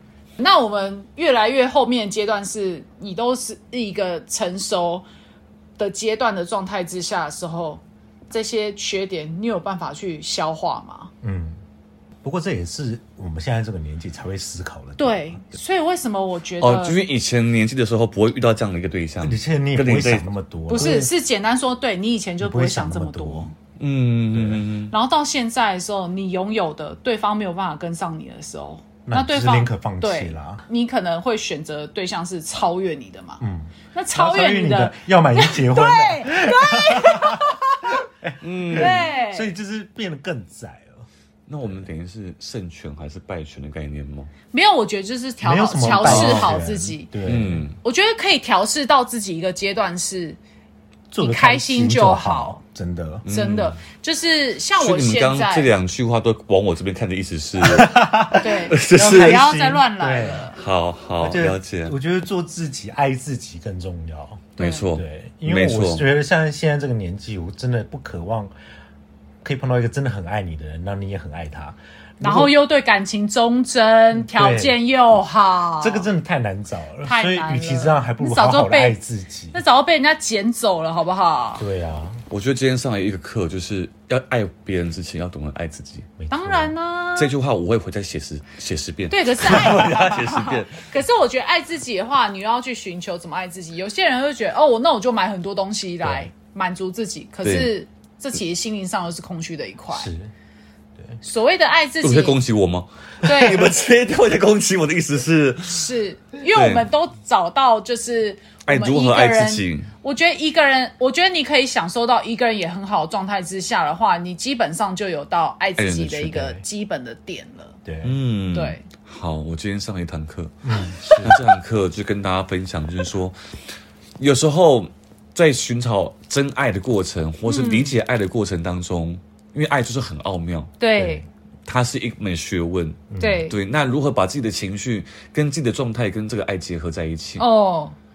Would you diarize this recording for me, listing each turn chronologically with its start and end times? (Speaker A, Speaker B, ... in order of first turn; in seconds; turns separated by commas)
Speaker A: 0.4-5.1, Speaker A: 5.8-11.1, Speaker B: 11.2-11.6, Speaker B: 12.2-15.4, Speaker A: 15.0-17.1, Speaker C: 16.6-21.0, Speaker B: 19.2-21.1, Speaker A: 20.7-23.6, Speaker B: 22.4-23.5, Speaker C: 23.8-24.9, Speaker B: 24.3-24.6, Speaker A: 24.9-38.0, Speaker B: 29.1-30.6, Speaker B: 33.4-37.5, Speaker B: 38.1-41.1, Speaker C: 38.4-39.1, Speaker A: 38.7-39.5, Speaker C: 41.5-44.3, Speaker B: 41.6-41.9, Speaker A: 44.5-47.1, Speaker B: 45.4-47.7, Speaker C: 45.9-46.6, Speaker C: 47.2-47.8, Speaker A: 47.8-50.4, Speaker B: 51.1-53.3, Speaker A: 51.2-52.6, Speaker C: 53.2-53.8, Speaker A: 53.3-55.7, Speaker C: 54.8-59.4, Speaker B: 57.6-60.5, Speaker A: 58.4-60.6, Speaker C: 60.5-62.0, Speaker B: 61.2-68.5, Speaker C: 64.6-66.1, Speaker A: 64.6-64.8, Speaker B: 69.4-72.5, Speaker A: 72.2-76.1, Speaker B: 74.1-74.8, Speaker B: 75.8-79.6, Speaker A: 77.0-79.0, Speaker A: 79.5-81.7, Speaker B: 81.6-82.2, Speaker C: 82.3-86.1, Speaker B: 86.2-86.7, Speaker A: 86.3-87.4, Speaker C: 87.2-90.8, Speaker A: 89.1-100.1, Speaker B: 96.0-96.3, Speaker C: 97.4-97.7, Speaker B: 99.9-100.3, Speaker A: 101.2-102.4, Speaker C: 102.0-106.0, Speaker A: 103.2-103.7, Speaker A: 105.7-117.8, Speaker C: 106.5-106.9, Speaker C: 108.7-109.9, Speaker C: 115.8-116.5, Speaker B: 116.4-116.7, Speaker B: 117.8-118.2, Speaker C: 118.0-123.4, Speaker A: 118.5-118.9, Speaker B: 120.7-121.4, Speaker C: 124.2-130.7, Speaker A: 127.5-128.0, Speaker A: 130.8-131.3, Speaker B: 131.0-131.3, Speaker C: 131.7-137.5, Speaker B: 133.1-133.5, Speaker A: 133.2-133.6, Speaker A: 137.4-138.0